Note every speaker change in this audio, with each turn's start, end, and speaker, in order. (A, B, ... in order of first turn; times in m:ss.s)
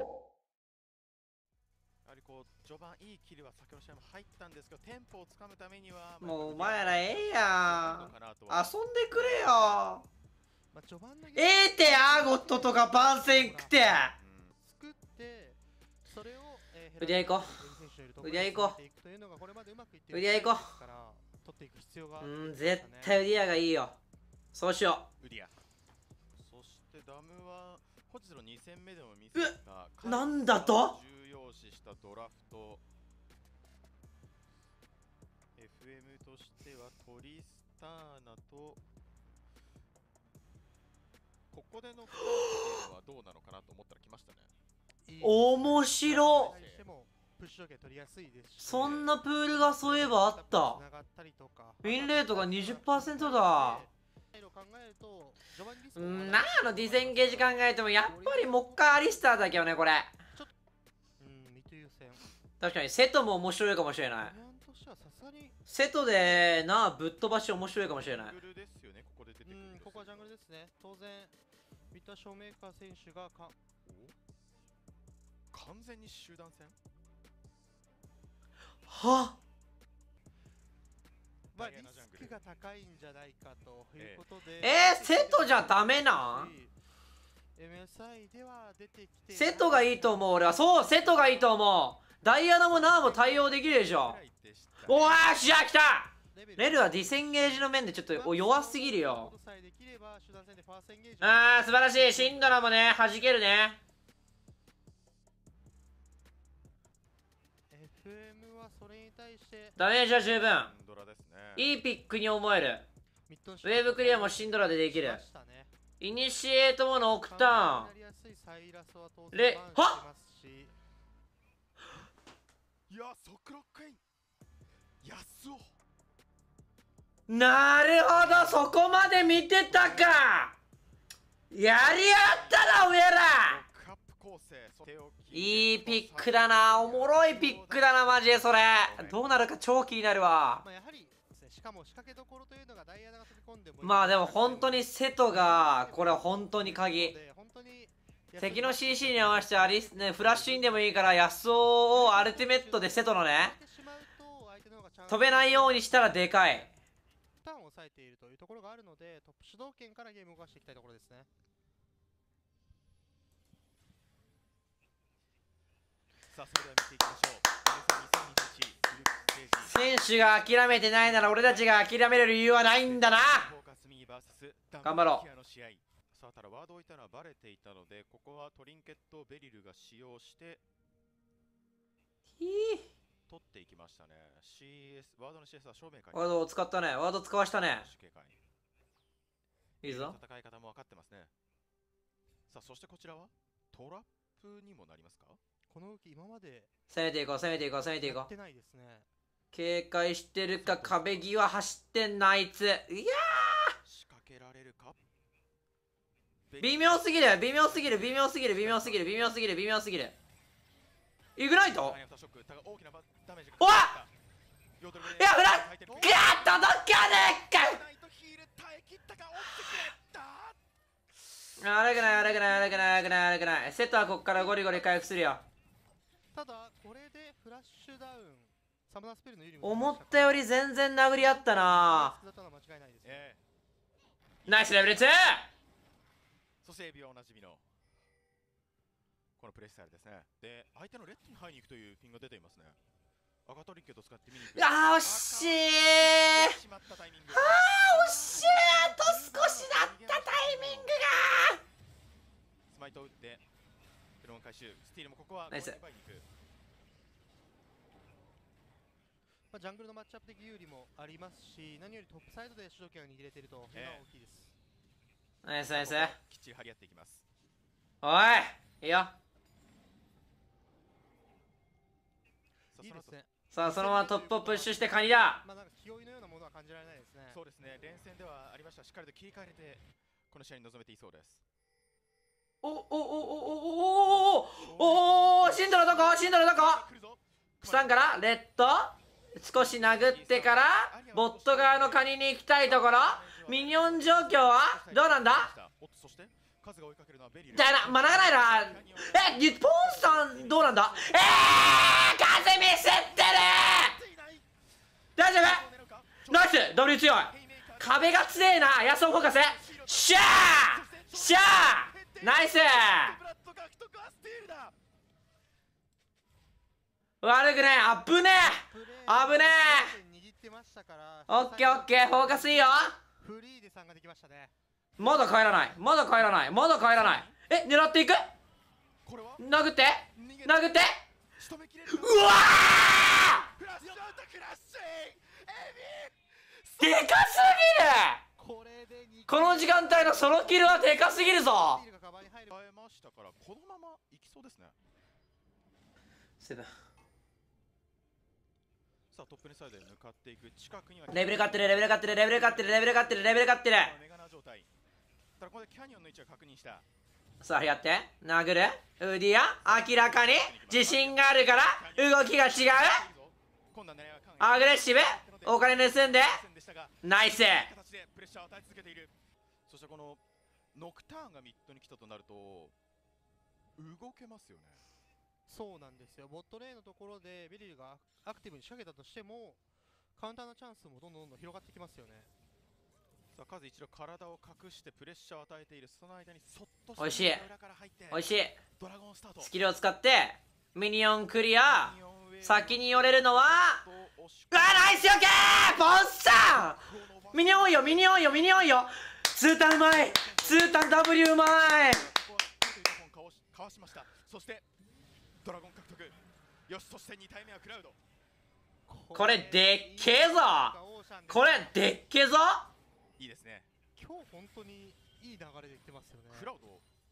0:02.0-0:09.9 A
0:06.2-0:10.0 B
0:10.7-0:14.1 C
0:11.4-0:14.1 B
0:14.2-0:14.6 A
0:14.6-0:23.2 C
0:17.0-0:17.5 B
0:18.2-0:18.8 B
0:20.1-0:20.7 B
0:22.2-0:24.0 B
0:24.5-0:25.1 B
0:25.2-0:25.5 A
0:26.4-0:32.8 A
0:29.4-0:31.0 B
0:35.6-0:38.8 A
0:41.5-0:44.5 A
0:45.0-0:59.7 C
0:45.2-0:46.6 B
0:46.1-0:46.8 A
0:48.6-0:50.8 B
0:48.7-0:49.1 A
0:51.8-0:53.8 B
0:56.0-1:00.2 B
1:01.2-1:02.2 C
1:02.6-1:04.4 B
1:04.2-1:05.6 C
1:05.7-1:08.4 B
1:07.9-1:10.3 A
1:09.5-1:11.4 C
1:11.9-1:13.6 C
1:13.8-1:14.1 A
1:15.5-1:16.8 A
1:18.9-1:19.4 B
1:21.5-1:22.4 A
1:21.6-1:26.7 C
1:24.0-1:24.2 A
1:24.6-1:26.5 B
1:27.6-1:31.6 C
1:29.3-1:34.2 B
1:32.7-1:35.4 A
1:34.9-1:39.3 B
1:36.3-1:43.2 C
1:41.2-1:43.8 B
1:47.7-1:49.8 C
1:49.8-1:50.7 B
1:50.4-1:51.7 A
1:51.6-1:52.9 B
1:53.3-1:55.7 C
1:53.6-1:55.2 B
1:56.0-1:57.9 B
1:57.2-2:00.7 C
1:59.3-2:00.0 B
2:02.9-2:04.0 A
2:05.0-2:05.7 A
2:07.3-2:10.6 B
2:09.7-2:10.2 A
2:11.5-2:13.6 B
2:11.8-2:19.3 A
2:15.3-2:20.6 B
2:20.6-2:31.3 C
2:23.8-2:27.2 B
2:28.4-2:33.6 B
2:31.9-2:36.7 C
2:35.1-2:36.7 B
2:37.4-2:41.3 C
2:46.3-2:52.0 A
2:49.6-2:53.5 B
2:52.8-3:00.6 A
2:54.8-2:55.2 B
3:02.4-3:02.8 B
3:03.3-3:06.4 A
3:06.1-3:07.9 B
3:07.7-3:08.4 A
3:09.8-3:10.2 B
3:09.8-3:11.3 A
3:12.5-3:15.4 A
3:15.7-3:16.7 C
3:16.9-3:18.3 B
3:18.0-3:19.1 C
3:19.5-3:23.8 B
3:20.5-3:21.3 A
3:23.8-3:25.0 A
3:26.5-3:29.3 A
3:26.6-3:30.2 B
3:31.4-3:32.0 B
3:31.7-3:34.1 A
3:33.6-3:34.0 B
3:34.8-3:40.6 A
3:35.0-3:37.8 B
3:35.9-3:36.8 C
3:41.6-3:45.4 B
3:42.0-3:43.0 A
3:42.1-3:43.0 C
3:44.4-3:44.8 A
3:46.3-3:50.5 C
3:49.6-3:52.2 B
3:51.1-3:53.3 C
3:53.0-3:53.4 A
3:54.4-3:55.1 A
3:54.4-3:55.5 B
3:56.6-3:57.6 A
3:59.4-4:02.8 A
4:03.5-4:11.0 A
4:04.5-4:06.6 B
4:07.3-4:11.6 B
4:12.7-4:13.4 A
4:14.2-4:16.2 A
4:15.5-4:15.8 B
4:19.5-4:24.5 C
4:23.7-4:24.0 A
4:25.4-4:26.2 B
4:25.7-4:27.2 A
4:28.0-4:29.1 B
4:32.7-4:33.2 A
4:32.8-4:37.4 C
4:33.5-4:35.4 B
4:37.3-4:41.4 A
4:42.6-4:46.8 B
4:44.5-4:48.2 A
4:47.6-4:55.5 B
4:49.6-4:52.1 A
4:52.6-5:02.4 A
4:57.5-5:04.0 B
5:03.4-5:04.5 A
5:05.2-5:05.6 B
5:05.3-5:14.8 A
5:06.3-5:13.2 B
5:17.2-5:20.0 B
5:18.4-5:24.5 C
5:21.3-5:23.0 B
5:25.0-5:28.3 B
5:26.9-5:27.4 A
5:29.0-5:29.4 A
5:29.4-5:31.0 B
5:30.1-5:30.8 A
5:31.4-5:37.2 A
5:31.9-5:33.5 B
5:33.8-5:34.2 C
5:36.8-5:38.2 B
5:38.4-5:42.6 C
5:39.3-5:41.8 B
5:42.5-5:44.8 A
5:46.4-5:46.7 B
5:49.1-5:54.7 A
5:51.1-5:53.9 B
5:55.4-5:56.8 A
5:57.4-6:03.0 B
5:59.6-6:09.1 A
6:04.4-6:06.4 B
6:07.0-6:07.7 B
6:09.7-6:10.2 A
6:10.7-6:12.7 A
6:13.8-6:14.8 A
6:15.5-6:19.6 C
6:20.2-6:22.3 C
6:23.4-6:29.5 A
6:27.0-6:27.4 B
6:28.1-6:28.6 B
6:29.4-6:33.8 B
6:31.6-6:38.9 A
6:34.5-6:36.8 B
6:37.3-6:42.1 B
6:39.9-6:44.6 A
6:45.4-6:46.2 A
6:46.7-6:48.0 A
6:48.9-6:51.8 C
6:49.1-6:50.8 B
6:51.3-6:52.7 B
6:53.2-6:53.7 A
6:54.0-6:56.5 C
6:56.3-6:56.8 A